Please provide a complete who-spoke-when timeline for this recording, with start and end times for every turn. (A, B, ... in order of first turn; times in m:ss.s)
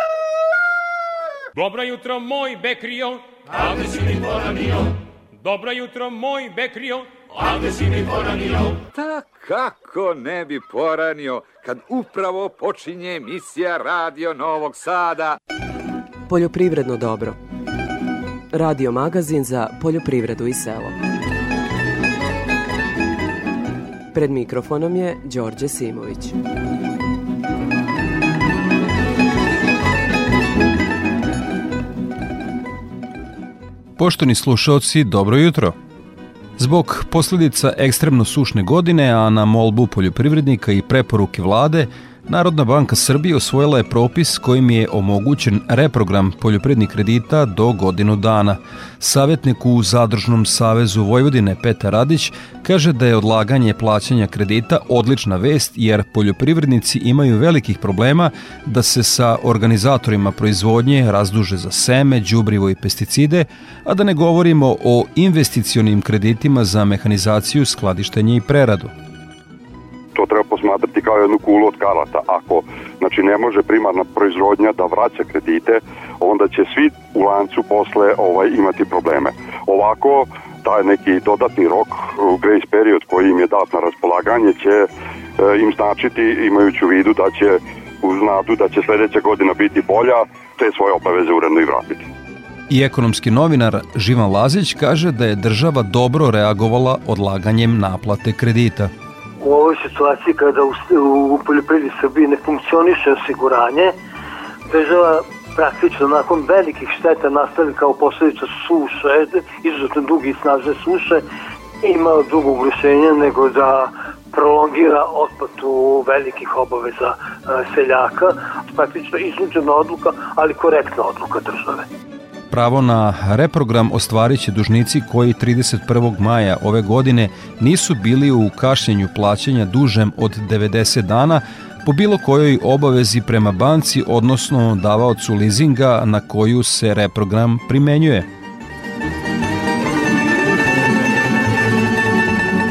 0:01.5-0:04.9 A
0:05.4-0:08.7 A
0:08.9-0:15.4 B
0:16.3-0:17.4 C
0:18.5-0:21.0 C
0:24.1-0:26.4 C
0:34.0-0:35.7 D
0:36.6-1:08.9 D
1:10.1-1:24.9 E
1:25.4-1:32.1 E
1:32.7-1:38.9 D
1:39.4-1:43.9 F
1:44.7-1:51.2 F
1:51.8-2:01.8 F
2:02.5-2:18.3 D